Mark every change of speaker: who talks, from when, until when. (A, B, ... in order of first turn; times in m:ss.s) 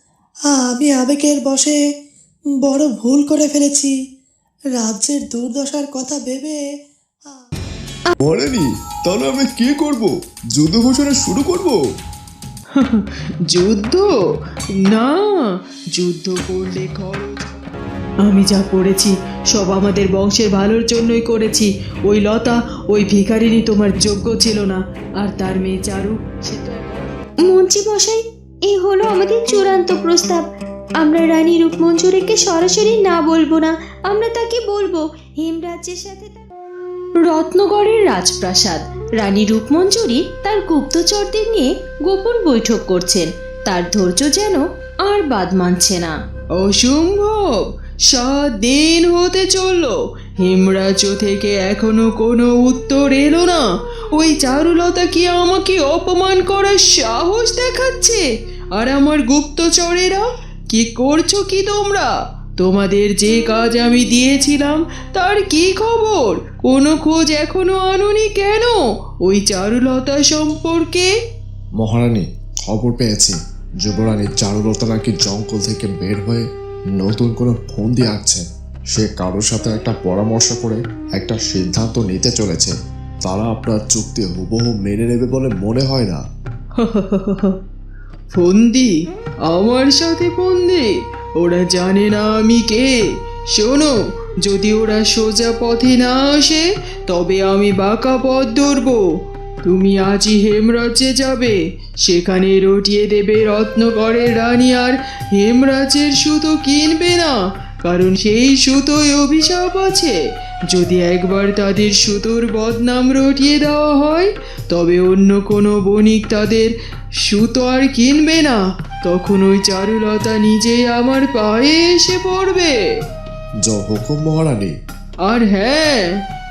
0:00.7-0:01.7 A
0:02.7-0:03.9 A
0:04.8-0:06.6 A
0:08.2-0:11.8 B
0:12.8-0:14.1 C
0:14.9-0:15.3 C
0:16.0-0:17.5 C
0:18.3-0:27.1 C
0:27.5-0:30.4 D
0:31.0-0:36.5 D
0:37.2-0:46.2 D
0:46.6-0:47.4 C
0:48.1-0:53.6 C
0:54.2-0:58.2 C
0:58.8-1:02.1 C
1:02.6-1:08.8 C
1:09.3-1:11.1 C
1:11.8-1:16.4 B
1:17.0-1:18.4 B
1:19.0-1:22.7 B
1:23.2-1:26.2 B
1:26.8-1:27.5 C
1:28.3-1:28.9 C
1:29.5-1:33.0 C
1:33.6-1:33.9 C
1:34.5-1:39.0 C
1:39.7-1:41.6 C
1:42.1-1:47.3 C
1:47.8-1:50.2 C
1:50.7-1:56.7 C
1:57.3-2:02.7 C
2:03.6-2:04.8 B
2:05.3-2:06.0 C